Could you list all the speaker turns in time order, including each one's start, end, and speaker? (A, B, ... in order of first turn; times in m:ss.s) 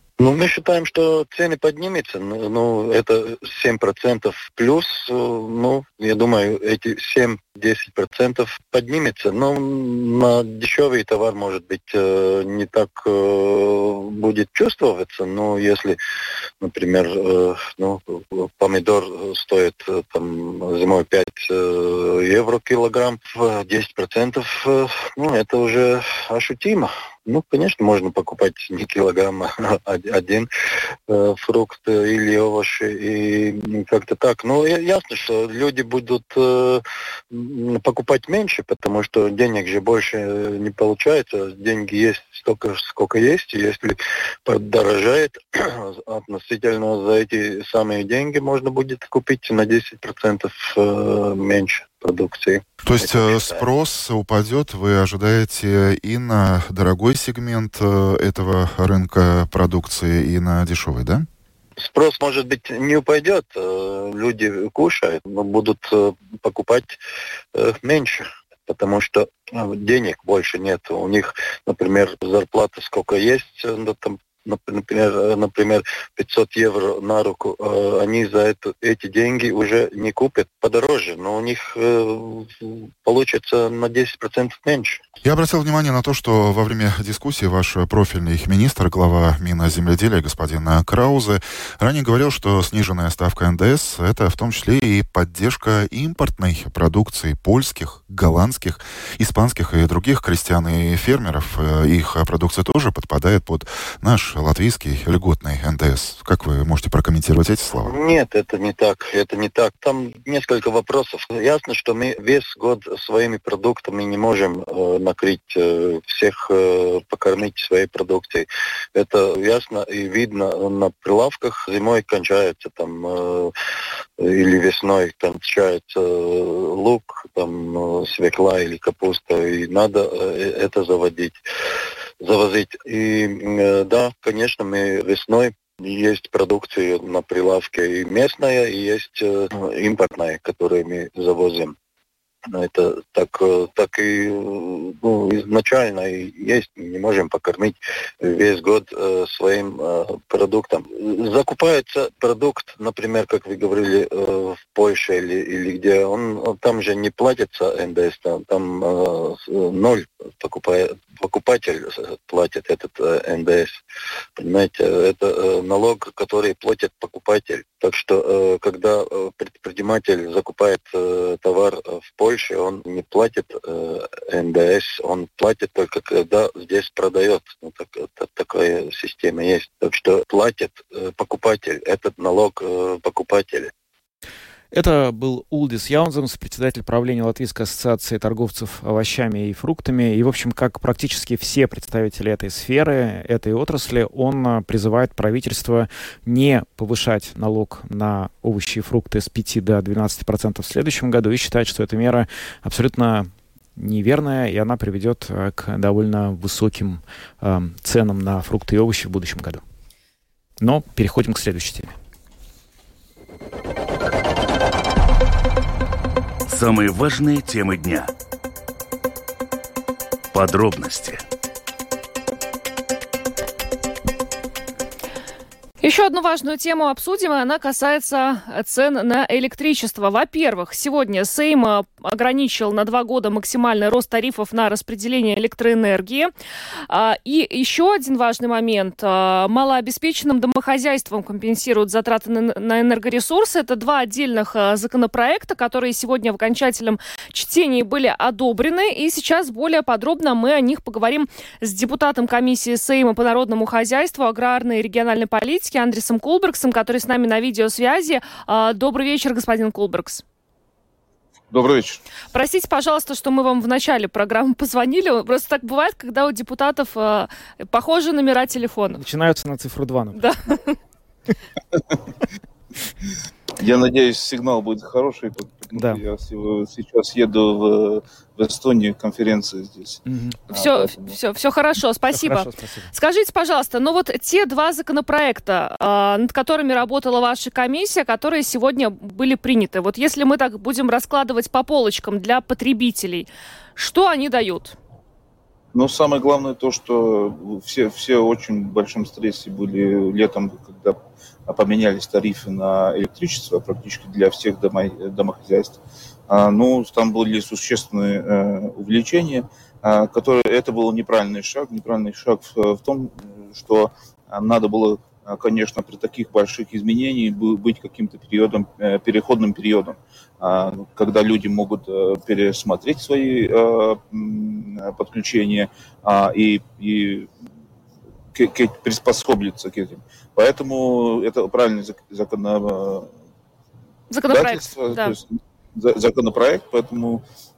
0:00.2-0:16.0 A
0:16.6-0:30.5 A
0:31.1-0:53.6 A
0:52.8-1:01.2 B
1:01.8-1:07.0 A
1:07.5-1:25.0 A
1:25.2-1:47.9 B
1:47.8-2:03.5 A
2:04.2-2:11.4 A
2:12.2-2:21.7 A
2:22.5-2:43.8 A
2:44.4-3:03.7 A
3:04.7-3:29.6 C
3:30.6-3:31.9 C
3:36.5-3:38.1 D
3:40.3-3:41.2 D
3:45.8-3:56.3 E
3:56.9-4:20.2 E
4:21.5-4:22.0 F
4:22.3-4:29.0 E
4:29.0-4:30.2 C
4:30.1-4:30.8 E
4:33.6-4:41.1 F
4:35.7-4:36.0 C
4:40.1-4:40.4 C
4:40.5-4:54.8 E
4:42.1-4:42.9 C
4:55.7-5:05.8 F
5:06.3-5:27.3 F
5:28.3-5:33.1 F
5:34.1-5:35.2 E
5:34.3-5:37.2 F